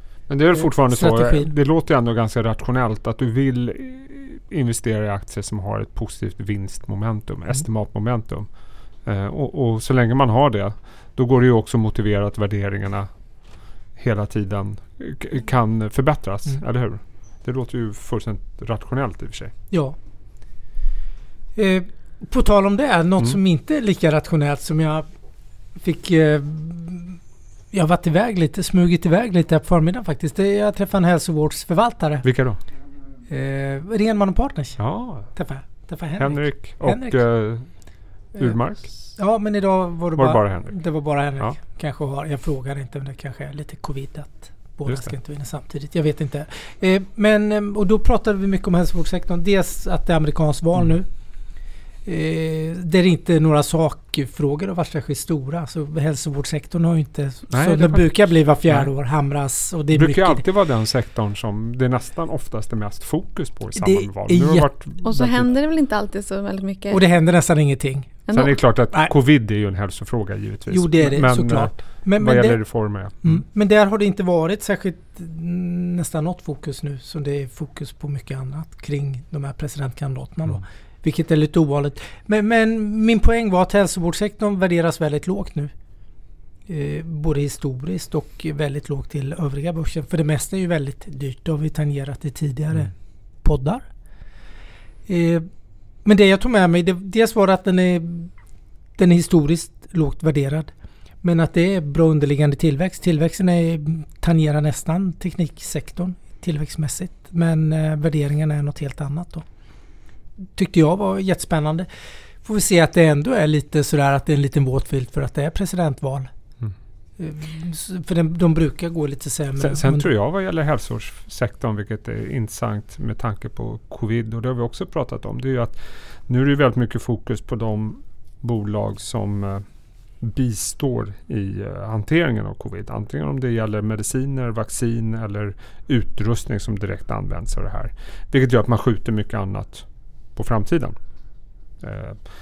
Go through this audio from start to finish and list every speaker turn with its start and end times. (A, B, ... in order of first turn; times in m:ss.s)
0:00.3-0:08.5 A
0:00.5-0:01.5 B
0:09.0-0:19.5 A
0:19.7-0:20.0 B
0:21.6-0:25.1 B
0:25.8-0:27.2 B
0:27.7-0:32.2 B
0:32.2-0:32.6 A
0:33.3-0:37.2 B
0:34.8-0:35.3 A
0:36.2-0:39.1 A
0:38.4-0:38.6 B
0:39.1-0:51.1 B
0:40.2-0:40.8 A
0:52.0-1:00.4 B
0:57.5-0:58.2 A
0:59.9-1:05.5 A
1:03.8-1:04.7 B
1:05.0-1:07.0 C
1:06.9-1:08.2 B
1:08.3-1:08.6 C
1:08.3-1:13.4 A
1:10.7-1:12.6 B
1:13.2-1:25.7 B
1:26.7-1:33.9 B
1:35.1-1:35.5 B
1:36.0-1:38.3 B
1:39.0-1:40.7 B
1:41.2-1:49.4 B
1:50.6-1:51.9 B
1:52.4-1:56.3 B
1:57.2-2:00.1 B
1:59.6-2:09.6 A
2:10.2-2:21.0 A
2:21.8-2:22.2 A